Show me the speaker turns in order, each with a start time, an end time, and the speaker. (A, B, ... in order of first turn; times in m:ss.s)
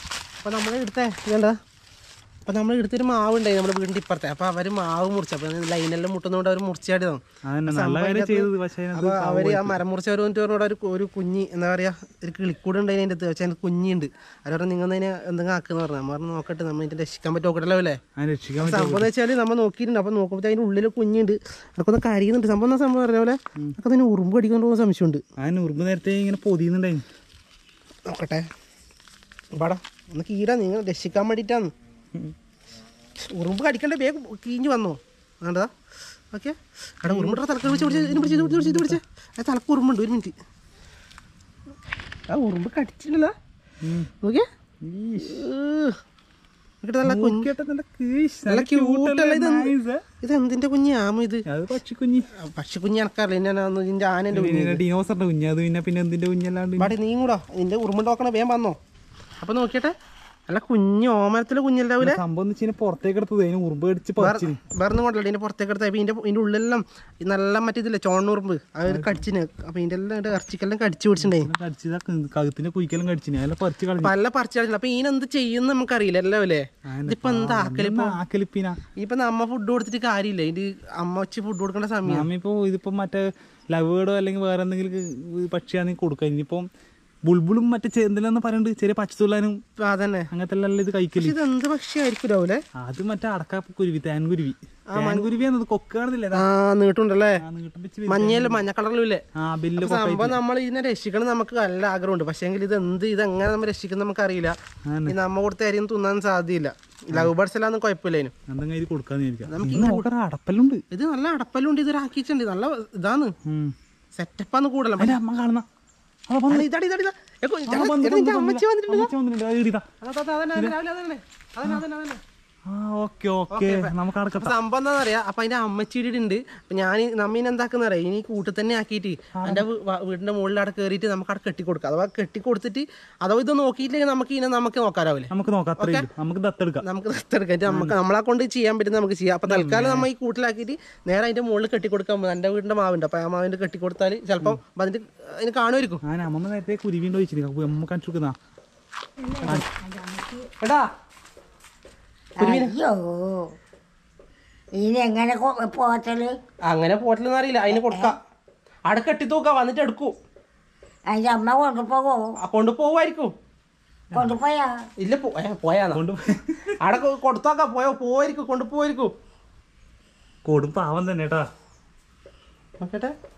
0:00.4-0:01.6 A
0:02.5-0:18.0 A
0:07.5-0:09.8 B
0:18.2-0:19.1 B
0:18.6-0:25.2 A
0:25.4-0:27.0 B
0:28.1-0:28.5 A
0:29.6-0:31.7 A
0:33.3-0:35.7 A
0:36.3-0:40.3 A
0:37.1-0:39.0 B
0:42.3-0:43.3 A
0:43.8-0:44.1 B
0:44.8-0:45.4 B
0:45.2-0:46.0 A
0:46.8-0:47.5 A
0:47.0-0:50.0 B
0:48.5-0:51.4 A
0:51.5-0:52.3 B
0:52.4-0:54.8 A
0:54.3-0:56.9 B
0:56.8-0:58.8 A
0:59.4-0:59.9 A
1:00.5-1:02.2 A
1:02.0-1:04.6 B
1:04.2-1:11.5 A
1:08.9-1:09.2 B
1:11.2-1:14.1 B
1:14.0-1:18.2 A
1:16.9-1:18.8 B
1:19.0-1:22.3 A
1:22.1-1:26.7 B
1:27.3-1:29.6 B
1:29.8-1:30.3 A
1:30.3-1:31.4 B
1:31.2-1:32.6 A
1:32.8-1:36.4 B
1:34.9-1:35.3 A
1:36.3-1:37.4 A
1:37.4-1:38.6 B
1:38.1-1:39.2 A
1:39.4-1:40.4 B
1:39.8-1:48.3 A
1:44.9-1:45.2 B
1:48.5-1:50.8 B
1:49.5-1:50.1 A
1:50.9-1:53.3 A
1:53.5-1:53.8 B
1:54.2-1:55.2 A
1:55.0-1:55.7 B
1:56.3-1:56.7 B
1:56.5-1:59.1 A
1:57.7-1:59.9 B
2:00.0-2:02.2 A
2:02.7-2:04.5 B
2:03.5-2:16.1 A
2:09.4-2:09.7 B
2:15.3-2:16.8 B
2:16.8-2:26.0 A
2:17.7-2:18.0 B
2:19.5-2:20.1 B
2:26.0-2:28.4 B
2:29.2-2:30.5 C
2:30.6-2:30.9 A
2:32.4-2:33.5 C
2:32.4-2:32.8 A
2:34.8-2:36.4 C
2:36.7-2:38.2 A
2:37.7-2:38.1 C
2:38.9-2:40.2 A
2:41.1-2:42.2 C
2:42.4-2:43.3 A
2:44.1-2:44.7 C
2:45.0-2:46.0 A
2:46.0-2:46.7 B
2:46.8-2:49.1 A
2:50.4-2:51.5 B
2:52.8-2:53.1 A